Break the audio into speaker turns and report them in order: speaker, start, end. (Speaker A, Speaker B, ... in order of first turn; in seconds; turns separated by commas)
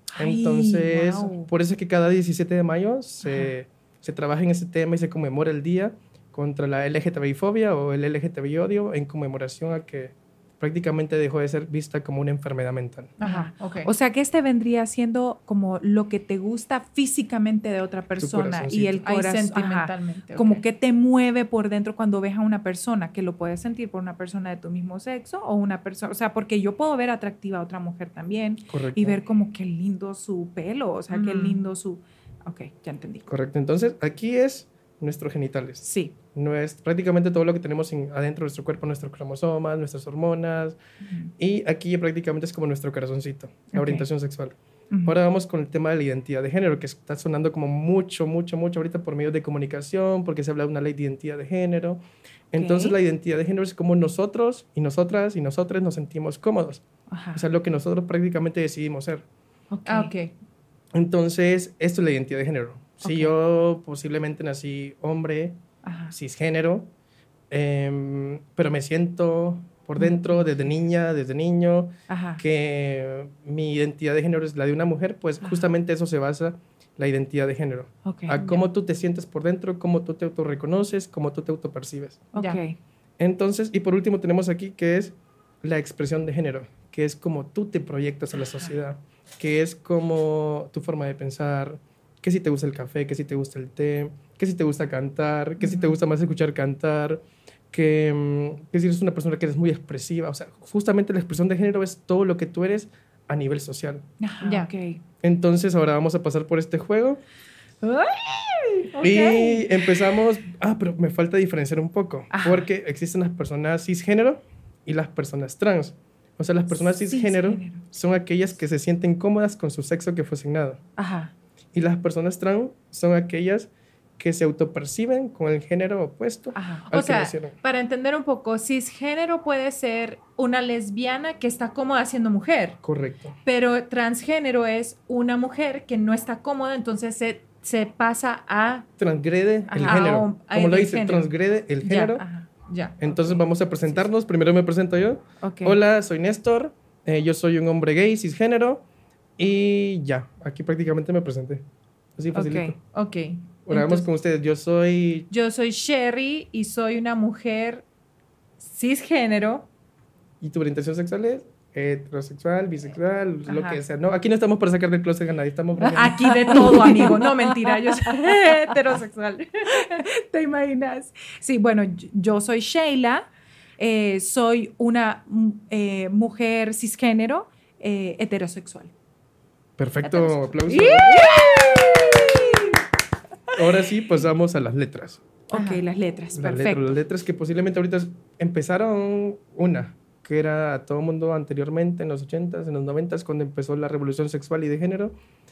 Speaker A: 0.1-1.5, Speaker B: 0.2-13.1, Speaker A: 3.2-3.5, Speaker C: 13.2-13.9, Speaker A: 13.2-33.3, Speaker B: 18.2-19.0, Speaker C: 19.0-20.6, Speaker B: 28.7-29.2, Speaker C: 31.1-31.6, Speaker B: 33.3-40.8, Speaker A: 35.8-36.1, Speaker A: 41.0-41.3, Speaker B: 41.4-56.8, Speaker A: 43.7-44.1, Speaker A: 52.6-53.0, Speaker A: 57.1-57.4, Speaker B: 57.3-59.2, Speaker A: 59.7-60.1, Speaker C: 59.9-60.3, Speaker B: 60.9-65.6, Speaker A: 63.0-63.3, Speaker A: 65.8-66.2, Speaker B: 66.1-66.9, Speaker B: 67.5-82.3, Speaker A: 70.0-70.4, Speaker A: 72.1-72.4, Speaker A: 75.4-75.7, Speaker A: 78.0-78.4, Speaker C: 78.4-78.6, Speaker C: 82.3-82.6, Speaker A: 82.3-82.8, Speaker B: 83.2-104.1, Speaker A: 95.6-95.9, Speaker A: 104.2-105.0, Speaker C: 104.4-104.7, Speaker B: 105.2-107.2, Speaker A: 107.8-109.7, Speaker B: 109.0-120.8, Speaker A: 112.3-112.7, Speaker A: 116.7-117.8, Speaker A: 121.0-121.3, Speaker B: 121.7-127.5, Speaker A: 126.5-126.9, Speaker C: 126.9-132.8, Speaker B: 132.8-133.4, Speaker C: 133.4-138.9, Speaker B: 139.0-142.2, Speaker A: 139.7-140.0, Speaker C: 139.8-141.3, Speaker C: 141.8-144.0, Speaker A: 142.2-142.5, Speaker B: 143.0-148.8, Speaker A: 145.4-145.8, Speaker B: 149.4-151.7, Speaker B: 152.2-152.8, Speaker A: 152.3-152.8, Speaker C: 152.9-153.9, Speaker B: 153.7-155.3, Speaker C: 155.3-157.8, Speaker C: 158.6-159.7, Speaker B: 160.4-166.7, Speaker A: 163.5-163.8, Speaker A: 165.8-168.4, Speaker C: 165.9-170.0, Speaker A: 169.8-173.3, Speaker A: 173.8-178.9, Speaker B: 179.8-181.2, Speaker A: 180.1-182.7, Speaker C: 180.9-182.2, Speaker B: 183.5-185.2, Speaker A: 185.5-187.0, Speaker C: 185.5-185.8, Speaker B: 186.3-195.1